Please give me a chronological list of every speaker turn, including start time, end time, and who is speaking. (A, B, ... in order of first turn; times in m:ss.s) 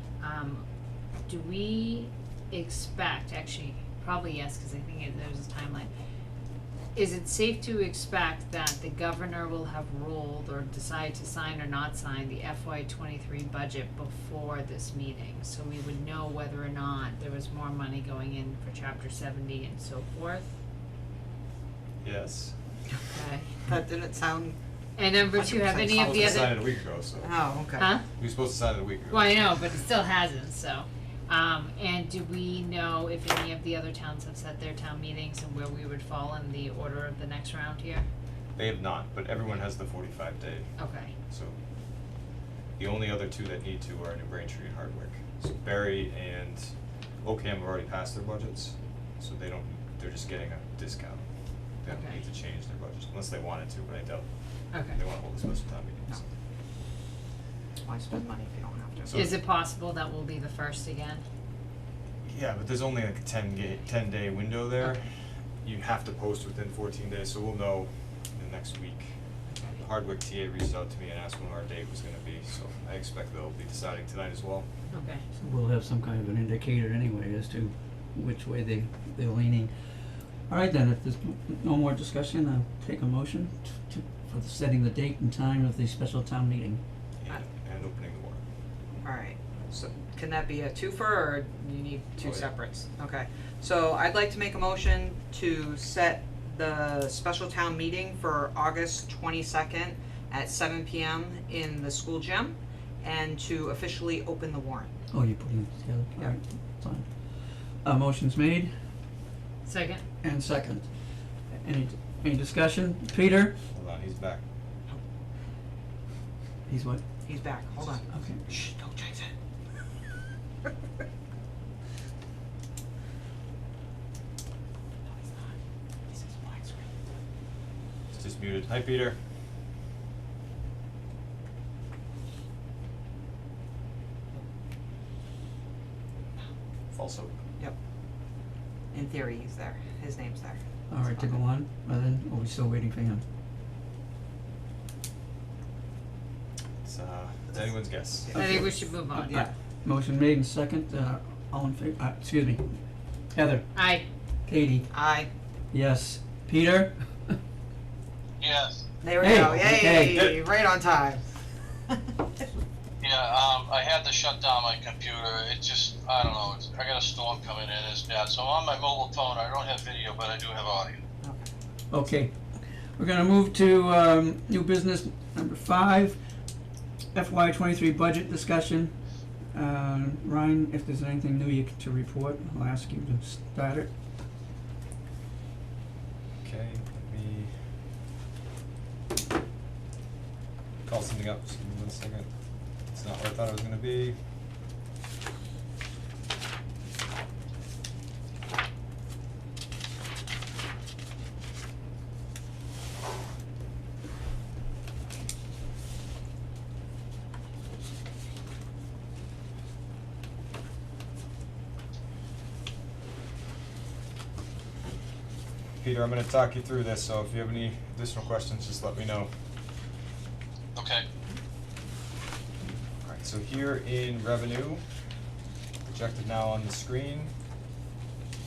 0:00.2-0:00.6 A
0:01.3-0:05.9 A
0:06.9-0:20.6 A
0:22.0-0:22.6 B
0:23.1-0:23.5 A
0:23.7-0:24.6 C
0:25.0-0:26.6 A
0:25.4-0:26.6 C
0:26.0-0:27.4 B
0:27.2-0:27.9 C
0:27.8-0:28.0 A
0:28.2-0:29.4 B
0:29.1-0:38.1 A
0:38.6-0:40.7 B
0:40.8-0:41.2 A
0:41.3-0:41.6 B
0:42.8-0:46.7 B
0:47.2-0:51.3 B
0:51.8-0:54.3 B
0:51.9-0:52.2 A
0:54.7-0:55.0 A
0:54.8-0:56.3 B
0:57.8-0:59.2 C
0:59.1-0:59.4 B
0:59.1-1:01.2 A
1:02.2-1:05.1 B
1:05.6-1:09.1 B
1:09.5-1:09.8 A
1:09.8-1:14.7 B
1:14.9-1:15.2 A
1:15.3-1:26.8 D
1:27.2-1:28.4 B
1:29.0-1:44.9 C
1:32.2-1:32.5 B
1:45.1-1:48.7 D
1:49.6-1:50.0 A
1:50.2-1:50.9 D
1:51.5-1:53.6 D
1:53.7-1:54.4 B
1:56.7-1:57.0 D
1:57.2-1:59.3 C
1:58.1-1:58.6 D
2:05.1-2:05.6 C
2:06.1-2:07.0 C
2:08.1-2:09.2 B
2:16.9-2:17.3 B
2:18.9-2:21.4 C
2:20.9-2:23.2 D
2:26.8-2:28.4 B
2:28.3-2:29.5 C
2:28.3-2:32.8 D
2:28.4-2:29.4 A
2:33.3-2:33.8 D
2:33.7-2:34.1 A
2:34.5-2:34.9 D
2:34.9-2:35.3 C
2:35.7-2:37.4 D
2:38.4-2:38.8 E
2:39.0-2:41.2 C
2:39.2-2:40.3 D
2:41.9-2:42.2 C
2:43.0-2:51.0 E
2:51.2-2:51.5 C
2:51.9-2:56.2 D
2:57.2-2:59.0 D
2:59.5-3:03.9 D
3:06.4-3:07.5 B
3:10.9-3:12.3 B
3:12.9-3:14.2 B
3:35.8-3:39.3 B
3:40.8-3:41.0 E
3:42.6-3:44.8 B
3:45.8-3:47.3 B